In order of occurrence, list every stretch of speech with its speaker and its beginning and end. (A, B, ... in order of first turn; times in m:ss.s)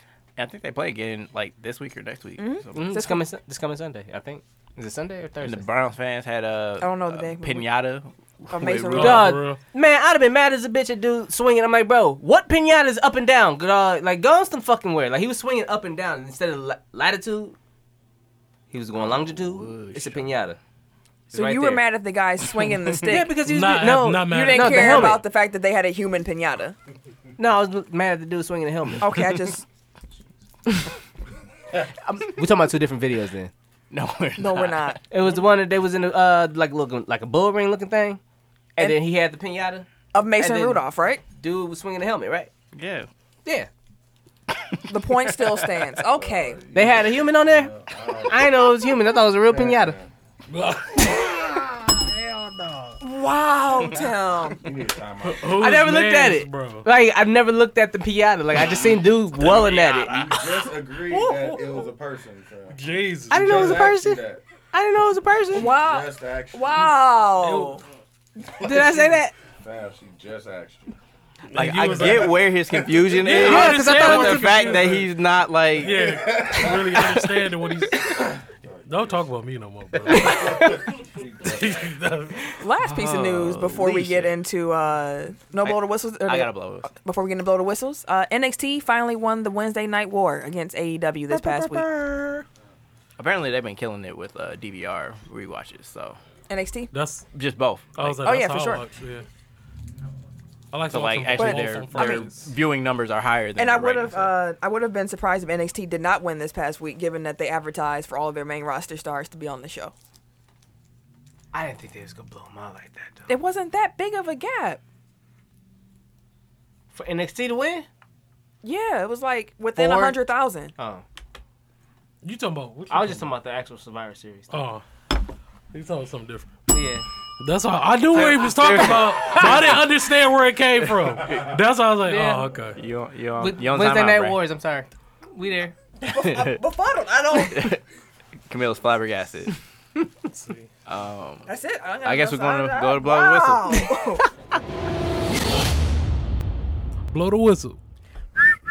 0:00.4-0:03.0 A
0:02.4-0:03.2 B
0:02.7-0:05.6 C
0:05.4-0:09.3 A
0:06.8-0:07.7 B
0:08.5-0:09.3 B
0:08.9-0:09.6 D
0:09.0-0:17.6 C
0:18.7-0:20.6 C
0:19.0-0:20.3 A
0:21.3-0:21.8 C
0:21.3-0:26.7 B
0:23.0-0:25.2 C
0:23.4-0:25.2 D
0:27.4-0:29.1 C
0:29.0-0:29.6 B
0:32.0-0:33.5 C
0:33.9-0:35.0 A
0:34.4-0:35.0 B
0:35.1-0:38.2 C
0:38.8-0:40.8 C
0:40.1-0:41.2 B
0:41.4-0:42.5 C
0:42.7-0:43.1 A
0:44.9-0:46.6 B
0:46.1-0:48.7 E
0:46.7-0:50.0 C
0:49.5-0:50.1 E
0:50.5-0:53.0 D
0:53.0-0:54.6 B
0:54.6-0:55.7 E
0:55.2-0:56.8 D
0:55.5-1:00.3 C
0:59.4-1:01.9 D
1:00.1-1:04.4 E
1:02.7-1:03.8 D
1:03.3-1:05.8 C
1:05.5-1:06.8 E
1:05.5-1:07.8 B
1:07.4-1:07.8 D
1:08.6-1:09.3 C
1:09.6-1:10.9 E
1:11.5-1:12.4 D
1:11.5-1:16.2 A
1:12.0-1:13.1 E
1:13.2-1:15.1 D
1:13.2-1:14.8 C
1:15.8-1:18.3 D
1:15.8-1:17.1 E
1:16.9-1:17.5 A
1:18.0-1:19.4 E
1:18.8-1:20.8 D
1:20.0-1:22.0 E
1:21.4-1:22.4 D
1:22.6-1:31.9 B
1:22.8-1:24.3 A
1:25.6-1:26.9 A
1:31.3-1:32.4 A
1:33.2-1:36.2 A
1:36.5-1:36.9 B
1:36.9-1:37.2 D
1:37.3-1:38.2 A
1:37.9-1:39.2 D
1:38.2-1:38.8 B
1:40.7-1:42.5 D
1:40.9-1:44.4 A
1:41.4-1:42.3 B
1:43.6-1:49.9 B
1:51.5-1:53.3 C
1:53.3-1:54.8 B
1:56.9-1:57.9 C
1:58.6-2:00.7 B
1:59.8-2:00.2 C
2:00.8-2:01.0 C
2:02.2-2:03.3 D
2:02.9-2:04.5 C
2:04.5-2:04.8 D
2:05.7-2:06.5 D
2:06.7-2:07.0 C
2:07.4-2:12.8 D
2:08.1-2:09.9 A
2:11.2-2:11.5 A
2:12.0-2:12.5 C
2:12.8-2:14.4 A
2:13.4-2:15.7 C
2:16.0-2:17.7 B
2:16.1-2:16.6 A
2:17.3-2:17.8 A
2:18.5-2:19.5 A
2:20.3-2:20.7 D
2:20.9-2:21.5 A
2:21.5-2:24.2 B
2:22.0-2:23.9 A
2:27.1-2:27.8 D